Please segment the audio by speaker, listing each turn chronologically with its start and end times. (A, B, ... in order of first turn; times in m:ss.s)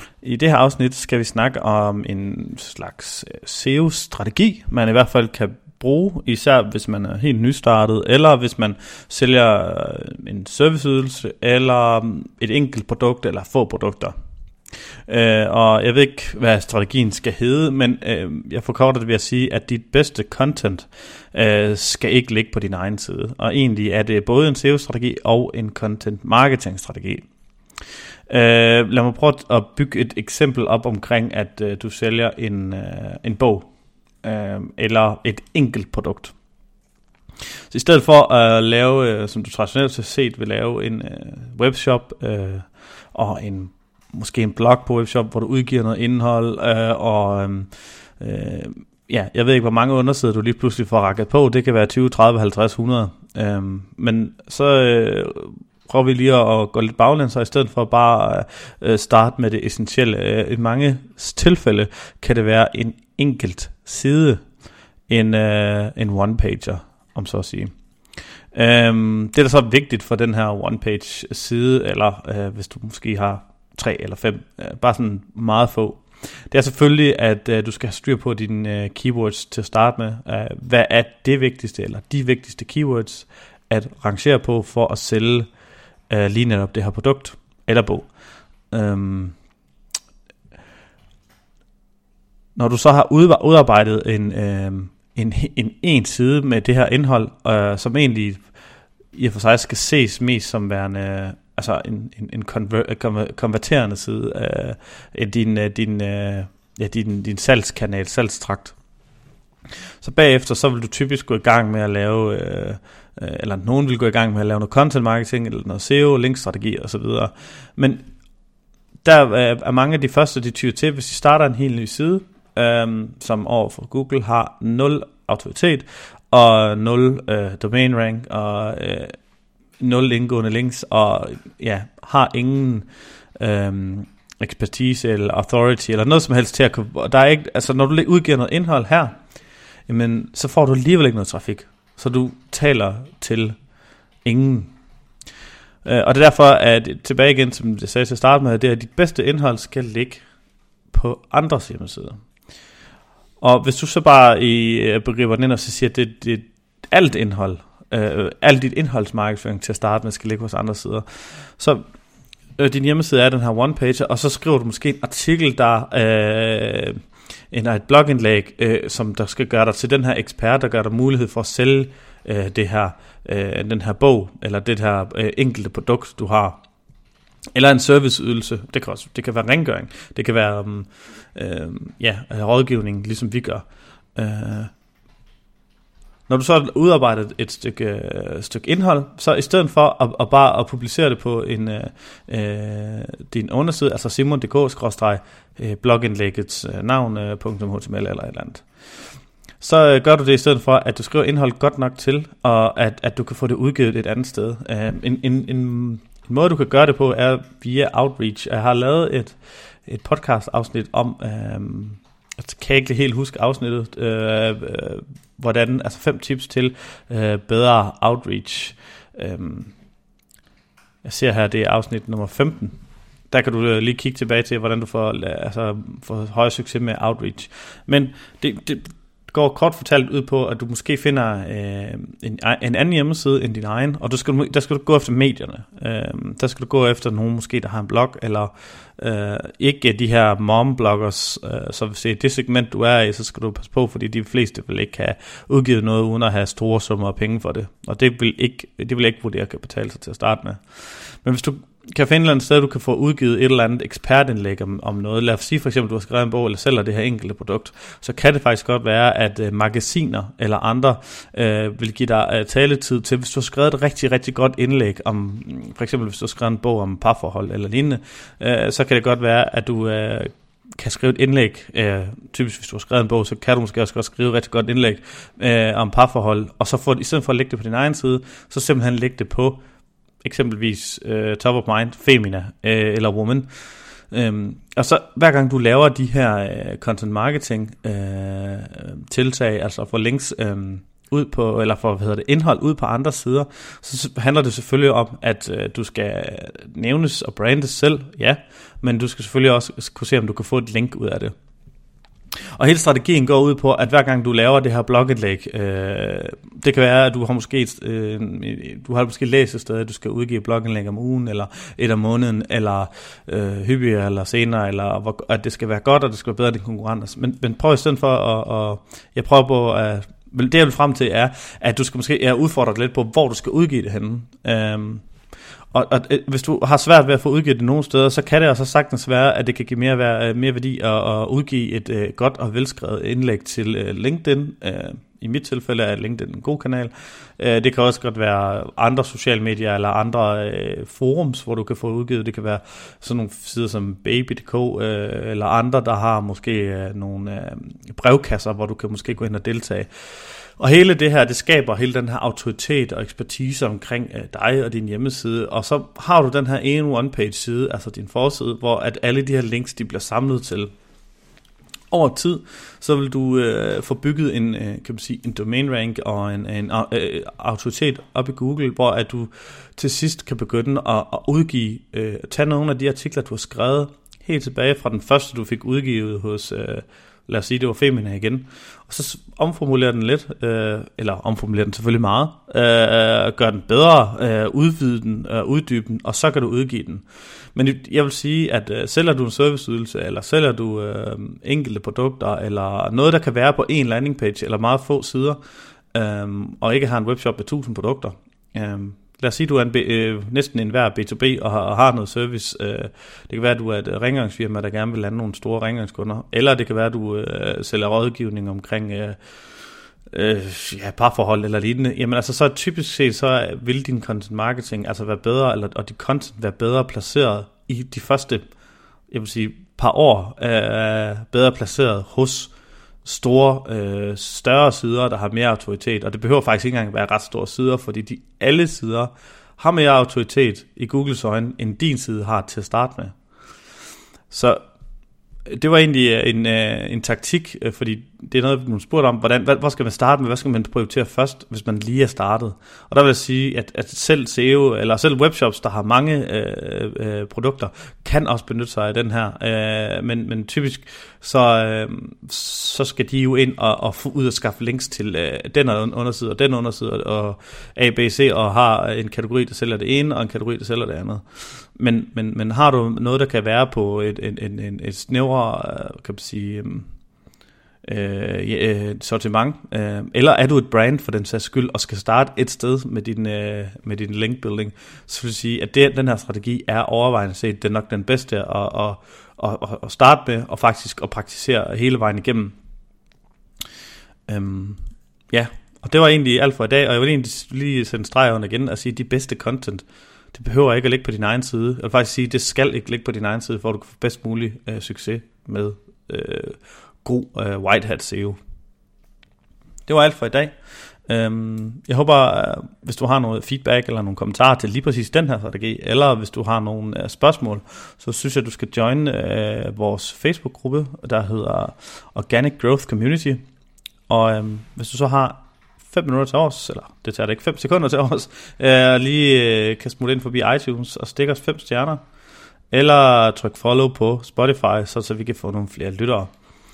0:00.2-0:14.1 A
0:15.1-0:27.2 A
0:28.3-0:33.7 A
0:34.2-0:36.3 A
0:37.7-1:04.4 A
1:05.1-1:07.7 A
1:08.5-1:25.5 A
1:26.1-1:28.1 A
1:28.7-1:29.4 A
1:32.6-1:38.4 A
1:39.1-1:48.8 A
1:50.0-1:58.0 A
1:59.0-2:09.2 A
2:09.8-2:19.2 A
2:19.9-2:23.6 A
2:24.2-2:24.7 A
2:25.8-2:30.2 A
2:30.9-2:32.2 A
2:33.4-2:41.8 A
2:42.6-2:56.6 A
2:57.6-3:04.7 A
3:06.3-3:18.7 A
3:19.6-3:39.7 A
3:41.0-3:42.8 A
3:43.3-4:39.6 A
4:40.2-4:43.5 A
4:44.1-5:01.4 A
5:02.6-5:25.1 A
5:25.7-6:00.7 A
6:01.9-6:35.4 A
6:35.9-6:49.2 A
6:50.1-6:58.5 A
6:59.1-7:02.5 A
7:03.0-7:13.1 A
7:14.3-7:14.6 A
7:15.5-7:46.9 A
7:47.8-8:02.6 A
8:04.3-8:18.4 A
8:19.9-8:20.6 A
8:21.1-8:33.4 A
8:34.1-8:42.0 A
8:42.7-8:46.3 A